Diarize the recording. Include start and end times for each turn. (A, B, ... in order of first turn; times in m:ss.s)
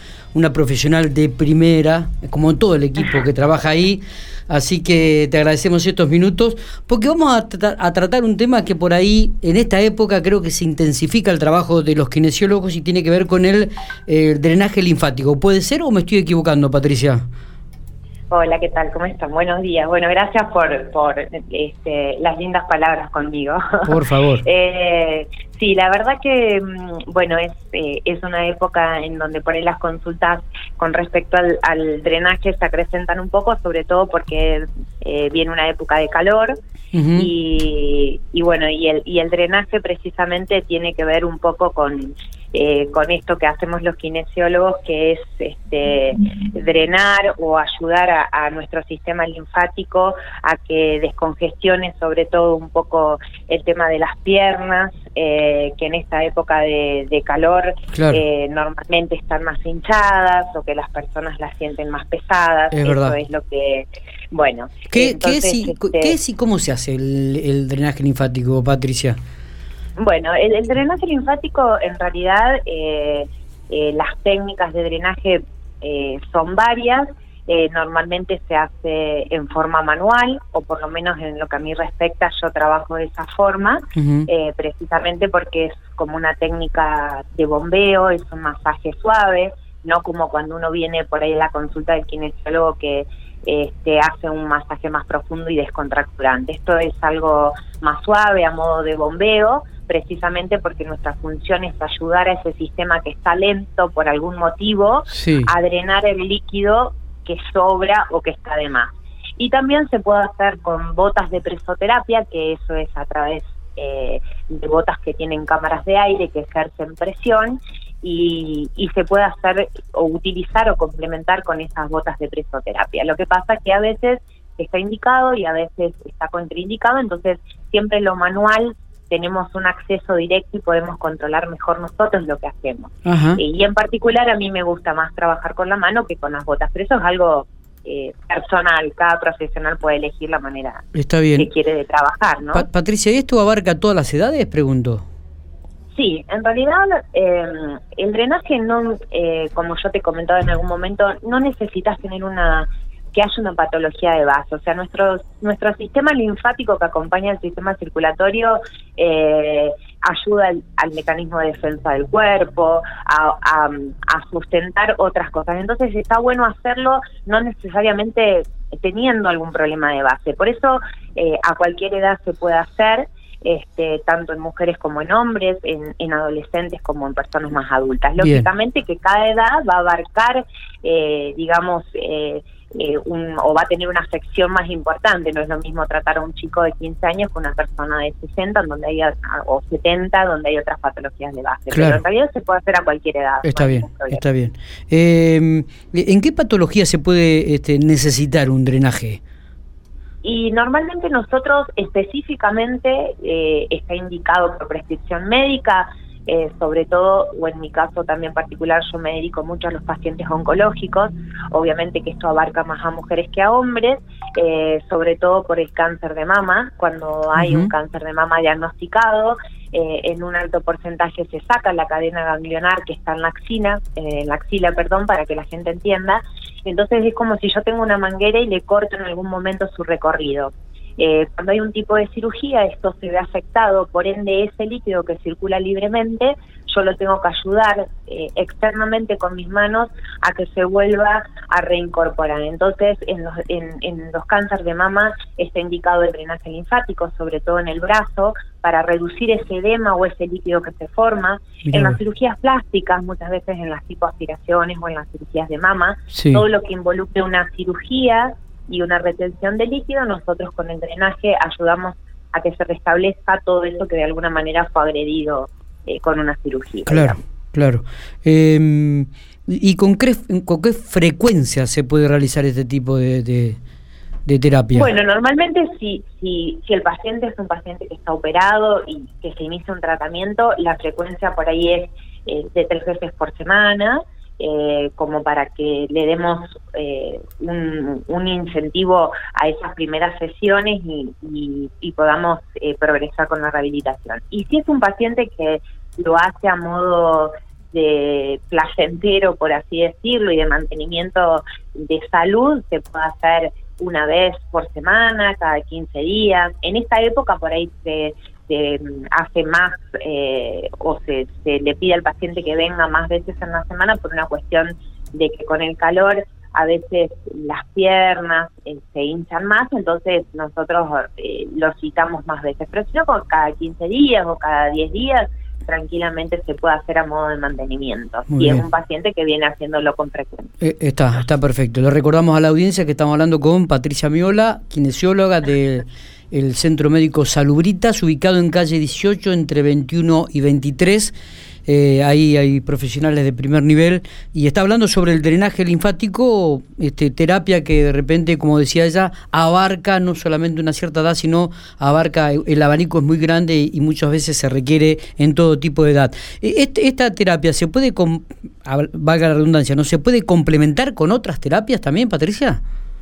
0:00.3-0:17.2 A
0:18.3-0:36.6 B
0:23.9-0:24.4 A
0:36.9-0:37.3 A
0:37.2-1:06.2 B
0:57.9-0:58.2 A
1:02.7-1:03.2 A
1:04.9-1:09.2 A
1:10.0-2:20.8 B
1:24.0-1:24.3 A
1:45.1-1:45.5 A
2:13.0-2:13.4 A
2:21.0-2:21.5 A
2:21.4-2:22.7 B
2:22.5-2:25.0 A
2:25.9-3:14.2 B
2:58.2-2:58.5 A
3:11.7-3:12.0 A
3:13.4-3:19.2 A
3:20.2-4:27.2 B
3:37.4-3:37.7 A
4:11.6-4:12.0 A
4:16.1-4:16.4 A
4:26.9-4:33.6 A
4:34.3-4:34.9 A
4:34.7-5:30.5 B
5:28.3-5:28.6 A
5:30.6-5:41.2 A
5:41.7-6:02.6 A